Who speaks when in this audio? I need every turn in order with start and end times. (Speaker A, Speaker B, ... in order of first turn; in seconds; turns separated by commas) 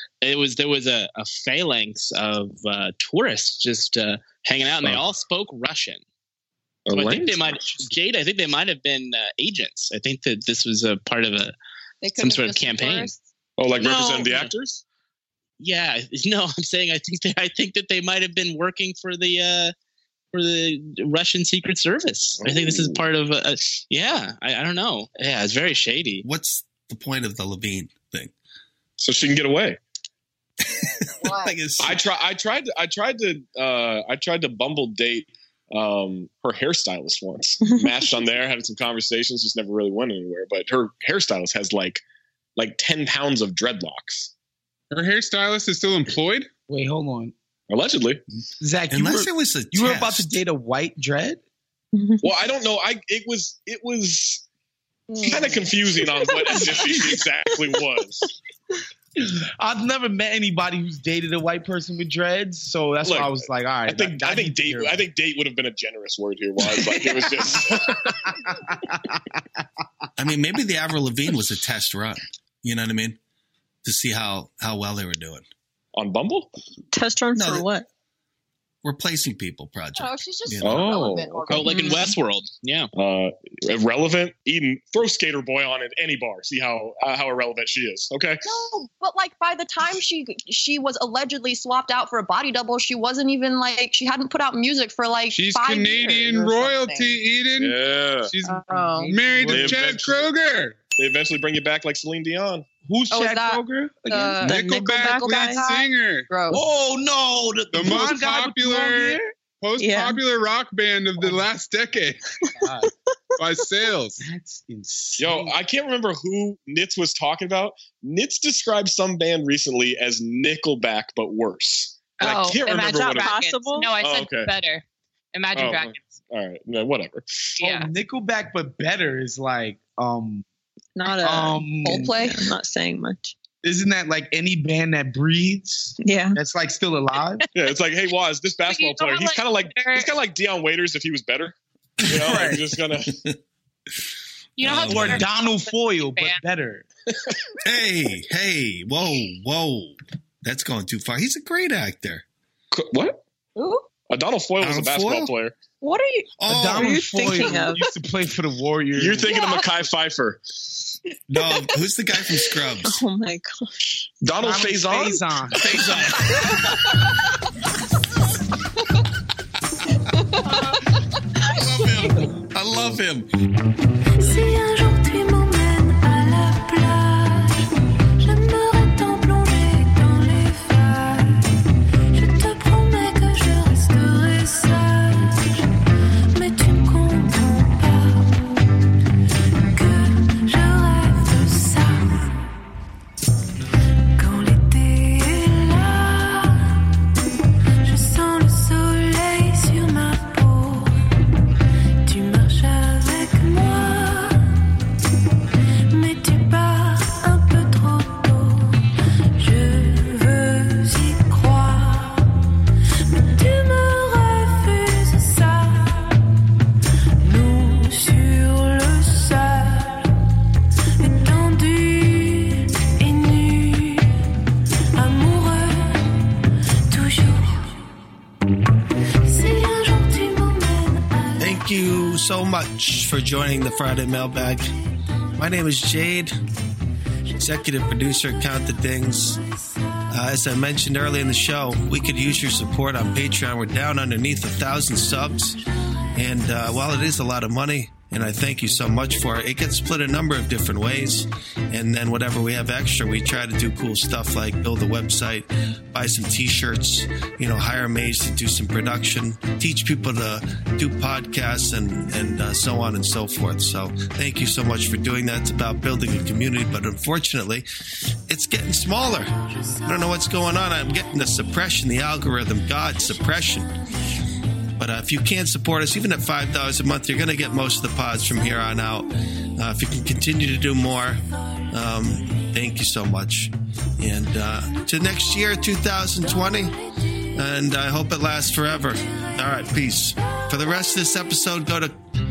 Speaker A: 0.2-6.0, Speaker B: 6.9-7.6, Speaker A: 6.9-11.5, Speaker C: 12.0-13.2, Speaker A: 12.2-13.1, Speaker B: 13.6-14.8, Speaker A: 13.8-14.5, Speaker A: 15.6-19.7, Speaker A: 20.3-26.2, Speaker B: 22.4-23.0, Speaker D: 26.2-28.3, Speaker B: 29.0-29.8, Speaker D: 30.8-32.0, Speaker C: 31.2-31.6, Speaker B: 31.8-42.0, Speaker E: 37.6-37.9, Speaker B: 42.6-44.3, Speaker F: 44.9-46.5, Speaker G: 46.7-47.3, Speaker B: 47.7-48.2, Speaker G: 48.6-51.4, Speaker D: 48.9-50.4, Speaker E: 52.0-52.2, Speaker B: 52.2-54.4, Speaker C: 55.1-55.7, Speaker B: 55.2-58.3, Speaker G: 59.2-65.1, Speaker B: 63.0-68.1, Speaker G: 66.7-69.4, Speaker D: 70.2-73.2, Speaker D: 73.8-75.4, Speaker B: 76.0-76.5, Speaker E: 76.9-77.9, Speaker D: 77.4-77.7, Speaker D: 78.8-80.9, Speaker C: 80.0-82.0, Speaker B: 80.6-81.5, Speaker A: 81.5-82.9, Speaker E: 81.7-82.1, Speaker B: 83.0-88.4, Speaker C: 88.4-97.2, Speaker F: 95.3-100.8, Speaker B: 97.6-98.3, Speaker C: 98.4-99.2, Speaker G: 98.7-100.0, Speaker B: 99.5-100.3, Speaker B: 101.0-102.7, Speaker G: 102.9-104.7, Speaker C: 103.1-106.6, Speaker F: 104.4-106.3, Speaker E: 104.9-105.6, Speaker G: 106.5-109.3, Speaker F: 107.7-112.2, Speaker E: 109.8-110.2, Speaker G: 111.2-111.5, Speaker E: 112.4-112.9, Speaker G: 112.6-112.9, Speaker F: 113.4-114.2, Speaker G: 114.2-115.5, Speaker B: 115.2-123.3, Speaker H: 122.2-126.2, Speaker E: 122.7-123.9, Speaker B: 124.0-124.5, Speaker B: 125.5-127.5, Speaker H: 127.6-127.9, Speaker G: 127.6-130.4, Speaker E: 131.0-133.3, Speaker G: 131.2-132.1, Speaker C: 131.9-132.4, Speaker G: 133.6-137.4, Speaker E: 136.0-136.4, Speaker B: 137.5-143.1, Speaker H: 138.6-140.2, Speaker G: 142.1-142.6, Speaker H: 144.6-146.4, Speaker D: 144.6-145.3, Speaker G: 144.8-146.8, Speaker D: 147.6-152.2, Speaker B: 152.7-153.2, Speaker C: 153.6-153.9, Speaker B: 154.1-155.6, Speaker D: 154.6-155.3, Speaker E: 155.8-156.2, Speaker C: 155.8-156.1, Speaker D: 156.4-157.1, Speaker G: 156.5-159.4, Speaker E: 156.8-157.9, Speaker C: 157.4-157.7, Speaker B: 159.0-160.7, Speaker D: 161.3-163.0, Speaker E: 162.8-163.9, Speaker B: 164.2-165.2, Speaker G: 164.4-166.4, Speaker D: 171.5-173.3, Speaker I: 174.2-181.5, Speaker I: 182.1-185.4, Speaker I: 186.3-188.6, Speaker I: 189.7-192.4, Speaker I: 194.2-196.8, Speaker I: 197.8-201.0, Speaker I: 202.1-204.6, Speaker I: 205.9-208.8, Speaker I: 209.4-212.3, Speaker I: 213.1-216.2, Speaker I: 217.2-220.2, Speaker I: 221.0-224.1, Speaker I: 224.9-226.2, Speaker I: 226.9-227.8, Speaker I: 229.2-231.6, Speaker D: 231.4-234.7, Speaker D: 235.4-236.3, Speaker D: 237.4-239.4, Speaker D: 240.1-245.6, Speaker D: 246.2-267.7, Speaker D: 268.3-269.3, Speaker D: 269.9-273.7, Speaker D: 274.8-286.8, Speaker D: 287.4-292.0, Speaker I: 289.1-290.4